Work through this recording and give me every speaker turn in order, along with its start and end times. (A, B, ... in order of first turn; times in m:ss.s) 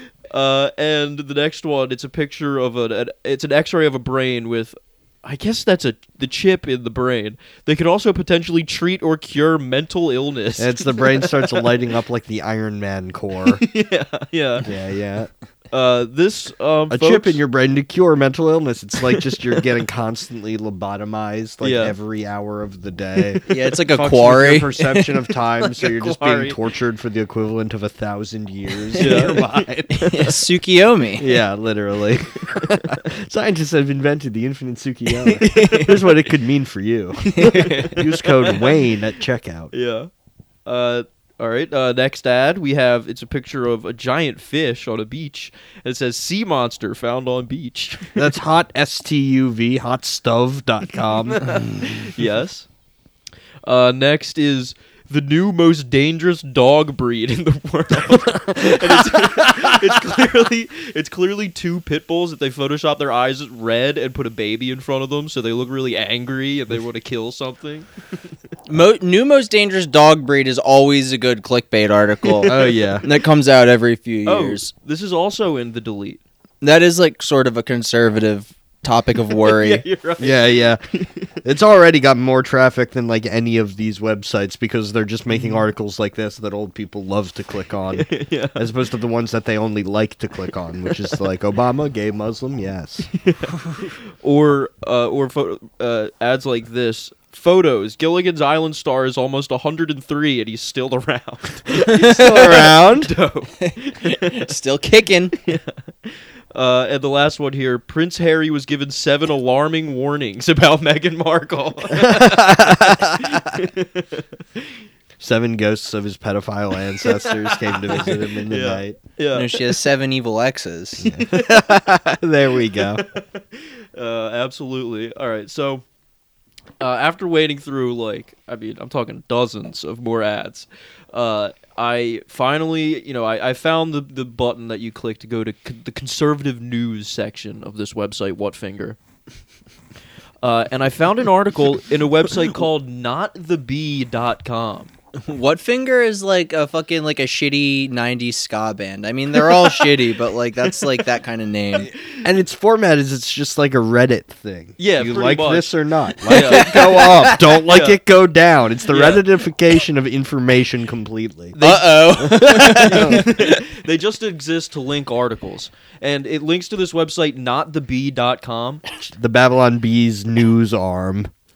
0:00.3-0:11.7 A
0:10.6-0:13.6 B
0:13.5-0:14.7 A
0:14.6-0:15.3 B
0:15.7-0:17.4 A
0:16.9-0:30.0 B
0:19.0-0:19.7 A
0:21.6-0:21.9 A
0:23.5-0:25.1 C
0:25.6-0:26.6 A
0:29.0-0:30.3 A
0:29.0-0:31.3 C
0:31.2-0:39.7 B
0:35.3-0:35.9 C
0:35.4-0:36.1 A
0:37.3-0:38.8 A
0:37.3-0:38.0 C
0:39.7-0:40.1 A
0:40.6-0:48.3 A
0:48.2-0:51.6 B
0:51.4-0:52.7 A
0:53.6-1:07.9 A
0:58.5-0:59.6 B
1:08.7-1:14.7 C
1:12.3-1:13.1 A
1:12.5-1:13.0 B
1:14.2-1:16.2 A
1:16.6-1:19.8 C
1:19.4-1:21.3 A
1:20.2-1:20.8 B
1:21.4-1:33.1 B
1:25.3-1:25.6 A
1:27.9-1:28.6 A
1:33.1-1:44.5 A
1:41.9-1:43.1 B
1:43.6-1:45.4 C
1:45.4-1:54.6 A
1:51.9-1:53.6 B
1:55.2-1:59.0 B
1:57.2-1:59.8 A
1:59.3-2:01.1 C
2:01.0-2:03.0 B
2:01.2-2:01.6 A
2:02.7-2:05.8 A
2:06.8-2:19.0 A
2:20.4-2:24.9 A
2:25.2-2:31.9 C
2:29.3-2:30.1 A
2:30.6-2:31.0 A
2:32.1-2:41.6 B
2:34.8-2:38.0 A
2:36.3-2:37.6 C
2:38.9-2:39.2 A
2:41.5-2:48.8 A
2:41.6-2:43.6 C
2:42.2-2:43.3 B
2:49.1-2:51.3 B